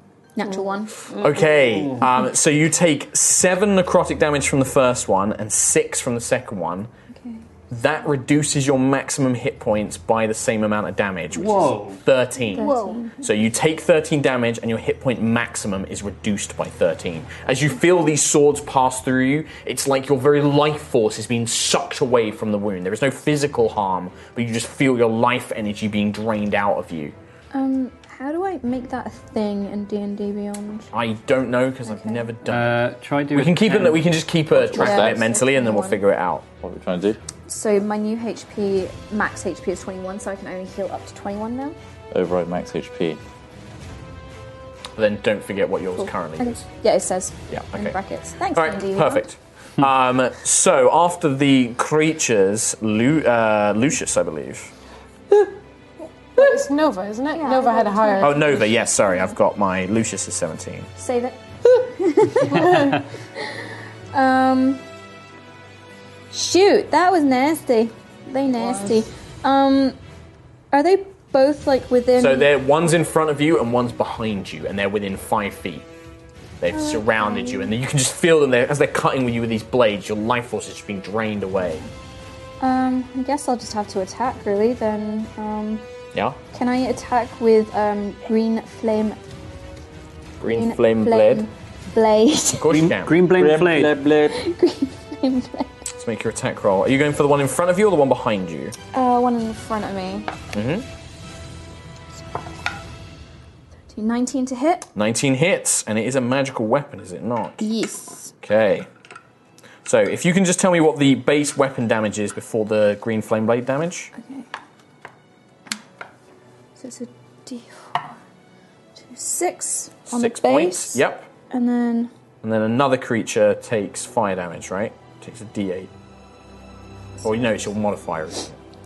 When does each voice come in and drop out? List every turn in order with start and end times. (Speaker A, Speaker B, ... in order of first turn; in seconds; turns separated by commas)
Speaker A: 0.3-1.1, Speaker B: 1.1-6.9, Speaker C: 1.6-2.0, Speaker A: 7.2-7.4, Speaker B: 7.7-27.1, Speaker C: 11.3-12.0, Speaker A: 12.5-13.2, Speaker D: 12.6-13.0, Speaker A: 27.5-30.9, Speaker B: 30.9-32.8, Speaker A: 31.8-32.2, Speaker C: 32.5-34.0, Speaker B: 33.3-36.4, Speaker E: 34.5-35.2, Speaker A: 34.8-36.0, Speaker E: 36.6-37.2, Speaker A: 37.5-41.8, Speaker E: 42.1-43.2, Speaker B: 45.0-46.6, Speaker A: 46.0-49.2, Speaker B: 47.5-47.9, Speaker B: 48.5-54.7, Speaker D: 56.4-58.6, Speaker A: 57.3-59.3, Speaker B: 58.2-60.9, Speaker A: 61.0-63.6, Speaker D: 62.5-62.9, Speaker C: 62.7-63.0, Speaker A: 64.1-64.8, Speaker A: 66.3-70.0, Speaker D: 68.6-69.0, Speaker A: 70.7-72.5, Speaker B: 72.2-75.8, Speaker B: 76.6-81.8, Speaker A: 76.7-77.7, Speaker A: 82.6-85.8, Speaker A: 86.5-89.2, Speaker B: 90.4-91.4, Speaker A: 90.5-92.8, Speaker B: 92.6-93.2, Speaker C: 92.7-94.0, Speaker E: 93.3-94.4, Speaker A: 94.3-95.8, Speaker B: 96.0-98.8, Speaker A: 98.9-100.3, Speaker B: 100.5-100.8, Speaker A: 103.9-104.9, Speaker B: 104.9-107.7, Speaker A: 107.6-108.3, Speaker B: 108.4-108.9, Speaker B: 109.8-114.1, Speaker A: 114.1-114.5, Speaker A: 116.8-118.0, Speaker A: 119.0-122.1, Speaker B: 120.1-121.3, Speaker B: 122.4-125.9, Speaker B: 127.2-128.5